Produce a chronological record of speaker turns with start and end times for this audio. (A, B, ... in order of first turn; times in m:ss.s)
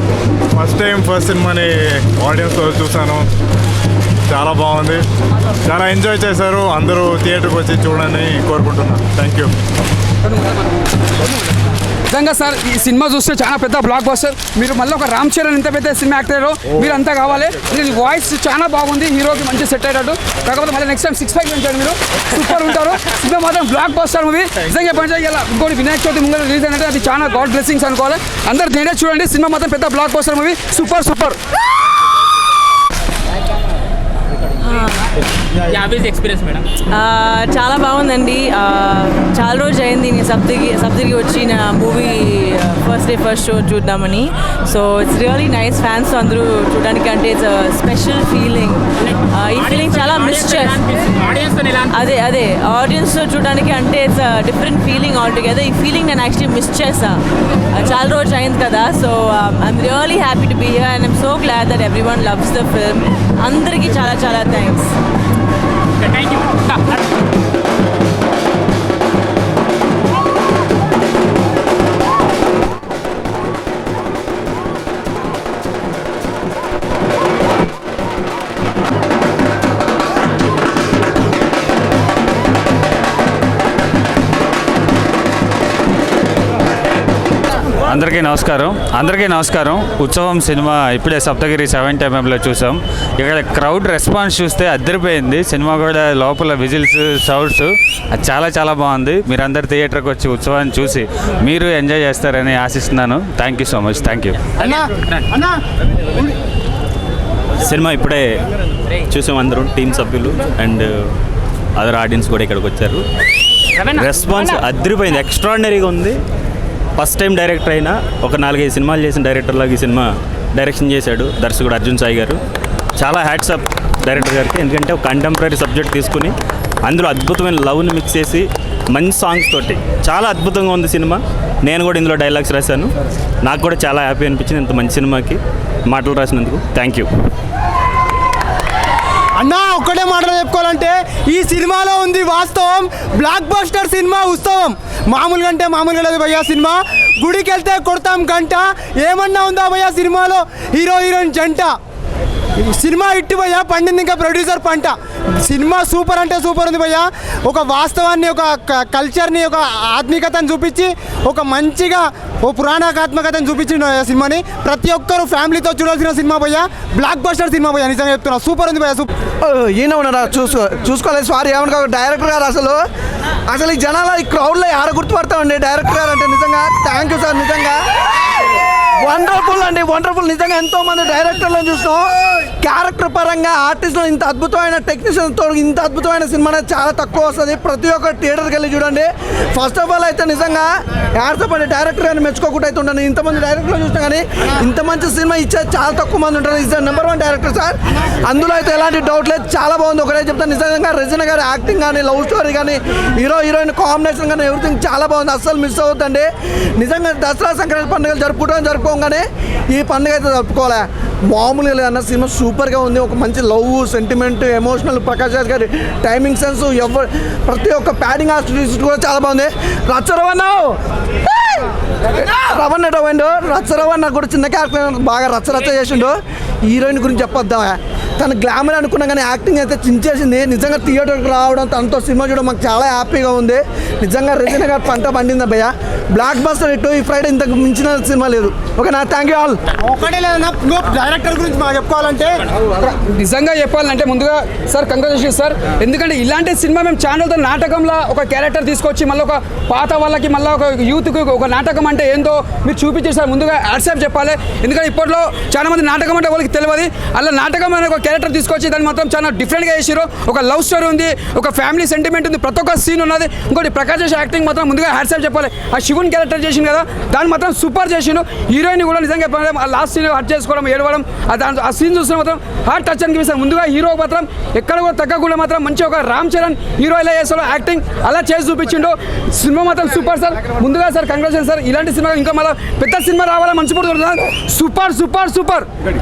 0:00.6-0:01.6 A
0:02.3-0:03.2 A
0:04.3-0:05.0 A
0:05.7-0:09.5 A
0:12.1-0:31.4 B
0:34.6-0:35.1 C
0:35.8-0:36.6 D
0:36.9-0:50.9 C
0:50.2-0:51.9 D
0:51.8-0:57.2 C
0:57.7-1:04.9 C
1:27.9-1:44.4 E
1:47.6-1:48.4 F
1:49.1-1:50.9 F
1:51.8-1:53.0 F
1:53.9-1:56.2 F
1:57.0-2:02.4 F
2:03.0-2:17.1 F
2:19.4-2:31.8 G
2:32.6-2:49.1 G
2:49.4-2:52.8 H
2:53.5-2:58.5 H
2:59.0-3:59.6 H
3:59.8-4:02.4 G
4:03.2-4:45.7 B